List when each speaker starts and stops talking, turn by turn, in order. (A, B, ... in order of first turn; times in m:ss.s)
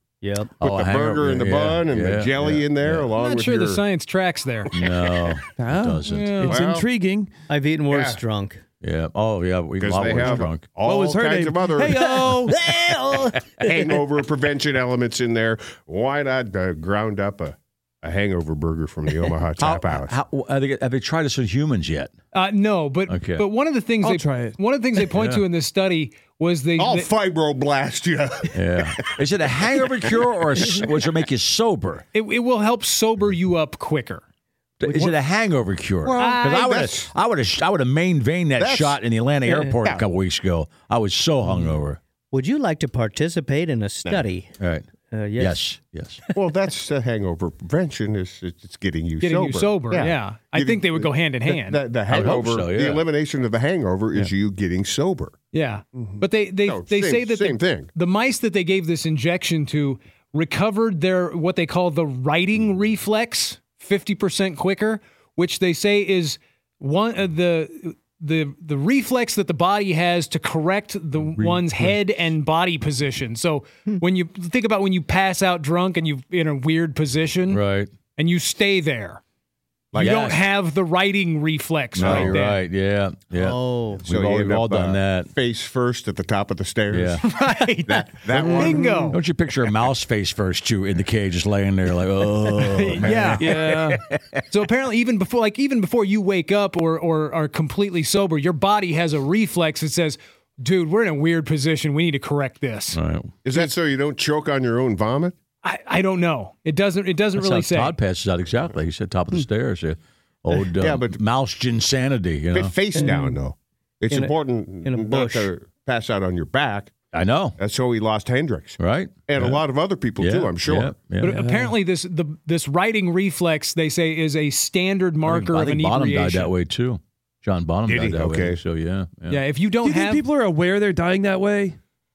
0:00.2-0:00.6 A
0:00.6-0:03.1 B
0:00.6-0:03.8 C
0:03.2-0:04.7 D
0:04.7-0:06.4 B
0:05.6-0:07.3 E
0:06.0-0:06.5 D
0:06.5-0:06.9 C
0:07.5-0:08.6 A
0:07.9-0:08.2 C
0:08.8-0:10.7 B
0:09.8-0:12.3 C
0:10.8-0:12.5 E
0:12.6-0:13.4 A
0:12.7-0:13.2 B
0:13.6-0:20.1 C
0:19.6-0:22.1 B
0:22.3-0:27.1 D
0:23.1-0:23.4 B
0:24.0-0:24.6 E
0:25.1-0:25.4 B
0:26.8-0:28.9 C
0:28.5-0:32.0 B
0:29.6-0:30.8 C
0:32.1-0:34.2 D
0:34.8-0:42.0 B
0:34.8-0:35.1 A
0:36.0-0:37.1 C
0:36.2-0:36.5 D
0:38.6-0:39.0 C
0:39.5-0:39.7 A
0:39.7-0:40.0 C
0:42.3-0:44.5 A
0:44.1-0:44.8 B
0:45.1-0:45.6 A
0:45.4-0:46.2 B
0:46.3-0:55.3 C
0:49.2-0:51.8 D
0:52.1-0:53.0 B
0:55.5-1:17.6 D
0:56.0-0:57.9 C
1:11.4-1:11.9 B
1:17.5-1:17.9 B
1:18.2-1:19.2 D
1:19.9-1:20.2 C
1:19.9-1:22.6 D
1:20.0-1:20.4 B
1:22.0-1:25.3 B
1:22.0-1:22.4 C
1:23.3-1:24.0 A
1:24.0-1:27.2 C
1:26.9-1:27.2 B
1:27.2-1:29.2 D
1:27.8-1:28.9 C
1:28.3-1:29.1 E
1:29.1-1:34.2 B
1:32.6-1:33.5 D
1:33.4-1:34.0 E
1:34.5-1:43.0 D
1:42.9-1:43.3 B
1:43.4-1:45.4 C
1:45.6-1:47.9 D
1:47.4-1:52.7 B
1:50.8-1:51.2 C
1:52.5-1:56.9 C
1:52.9-1:53.4 A
1:54.1-1:55.5 A
1:57.1-1:57.6 B
1:57.6-2:00.9 C
1:58.8-1:59.6 B
2:00.2-2:01.4 B
2:01.2-2:06.5 D
2:05.2-2:09.4 B
2:07.9-2:08.6 C
2:09.3-2:10.2 D
2:09.8-2:11.8 E